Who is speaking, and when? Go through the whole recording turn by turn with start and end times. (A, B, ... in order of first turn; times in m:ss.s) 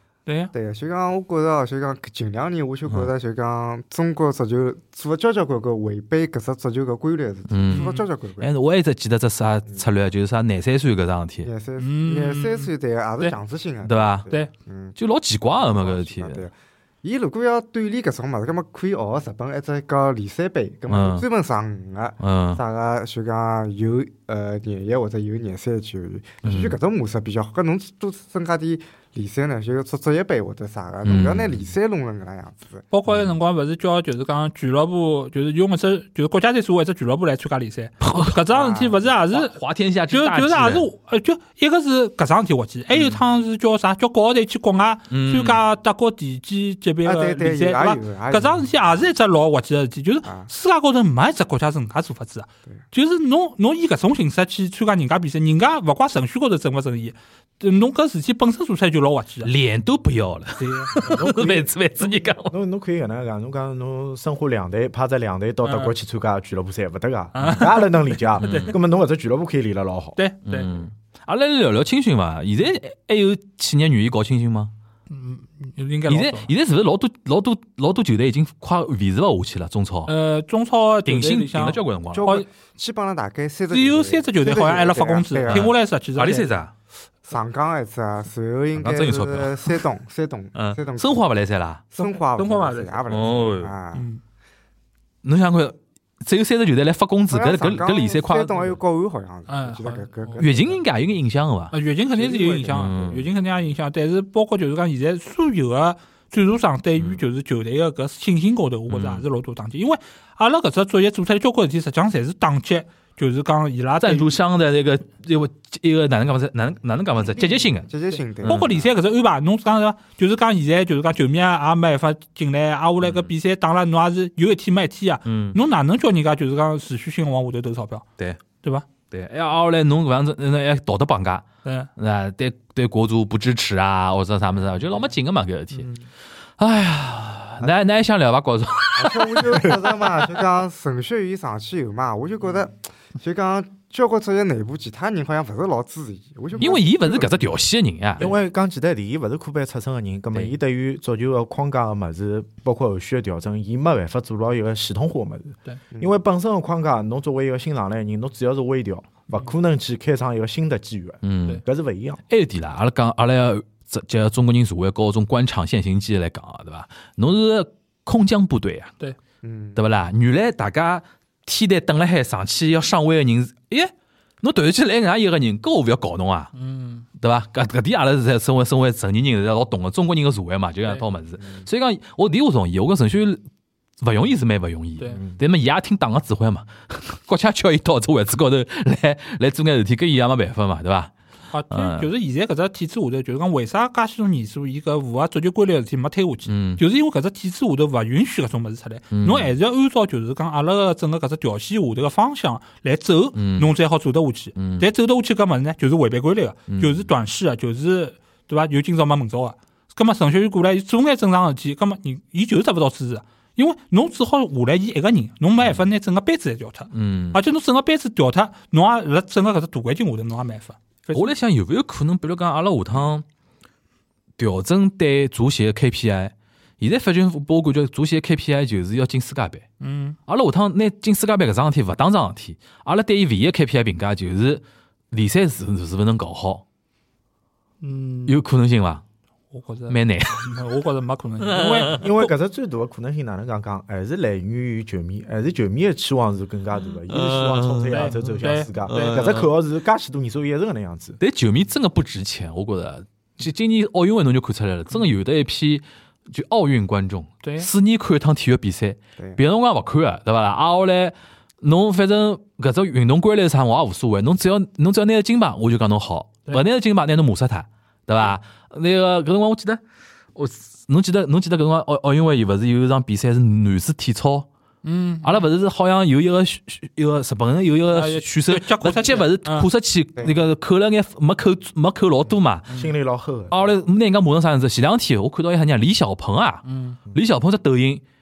0:00.2-0:00.5 A
0:00.5-0:08.5 B
0:07.5-0:11.5 C
0:07.7-0:08.0 A
0:11.4-0:15.0 B
0:11.8-0:13.3 A
0:13.8-0:14.3 C
0:15.0-0:16.4 C
0:15.6-0:32.8 B
0:20.9-0:21.2 C
0:22.2-0:22.6 C
0:26.4-0:26.8 C
0:31.0-0:31.7 C
0:32.9-0:39.6 A
0:33.1-0:33.3 C
0:38.0-0:38.4 C
0:38.5-0:39.1 B
0:39.3-0:40.9 C
0:40.1-0:59.5 A
0:45.1-0:45.6 C
0:47.0-0:48.7 B
0:59.4-1:02.6 C
1:00.6-1:01.1 A
1:01.0-1:10.2 D
1:05.6-1:05.9 A
1:07.3-1:08.7 A
1:08.4-1:08.7 C
1:10.2-1:10.7 A
1:10.5-1:14.7 C
1:15.1-1:16.5 A
1:16.1-1:20.1 C
1:20.1-1:22.4 A
1:21.0-1:22.4 C
1:22.1-1:25.7 B
1:23.7-1:26.5 A
1:25.5-1:26.7 C
1:27.2-1:31.2 B
1:28.7-1:29.8 C
1:30.5-1:31.8 C
1:31.9-1:34.1 B
1:32.0-1:33.0 A
1:33.1-1:33.7 C
1:33.9-1:34.2 A
1:35.2-1:38.8 C
1:37.3-1:40.8 B
1:39.5-1:40.4 A
1:40.4-1:41.7 C
1:41.7-1:54.3 A
1:42.2-1:43.2 B
1:42.7-1:43.3 C
1:48.9-1:49.2 C
1:54.0-1:57.9 C
1:57.9-1:58.8 B
1:58.4-1:58.7 C
1:58.4-2:08.0 A
2:03.0-2:03.3 C
2:05.2-2:05.6 C
2:09.1-2:11.4 C
2:12.0-2:15.9 C
2:14.5-2:14.8 B
2:15.7-2:16.0 A
2:16.6-2:19.7 C
2:18.9-2:27.6 B
2:26.6-2:28.3 C
2:28.2-2:42.2 D
2:41.2-2:41.6 C
2:42.3-2:48.9 C
2:49.4-2:49.8 B
2:49.8-2:56.5 C
2:56.5-2:57.0 A
2:57.2-3:03.4 C
3:04.0-3:11.1 C
3:11.5-3:41.3 A
3:11.7-3:12.1 C
3:16.5-3:16.8 C
3:19.1-3:19.5 C
3:23.3-3:23.7 C
3:24.6-3:24.9 C
3:26.7-3:27.1 C
3:36.9-3:37.4 C
3:41.1-3:43.2 C
3:44.4-3:49.6 C
3:49.8-3:50.2 A
3:50.3-3:56.6 C
3:57.8-3:58.4 A
3:58.3-3:59.0 C
3:59.5-4:02.0 A
3:59.9-4:00.6 C
4:01.4-4:02.1 C
4:02.0-4:11.2 D
4:07.1-4:09.5 C
4:07.9-4:09.2 A
4:11.2-4:29.8 C
4:17.4-4:17.7 A
4:30.4-4:34.5 C
4:34.8-4:35.4 A
4:35.2-4:42.6 C
4:37.9-4:39.7 A
4:42.7-4:43.7 D
4:43.5-4:48.0 C
4:46.6-4:47.0 A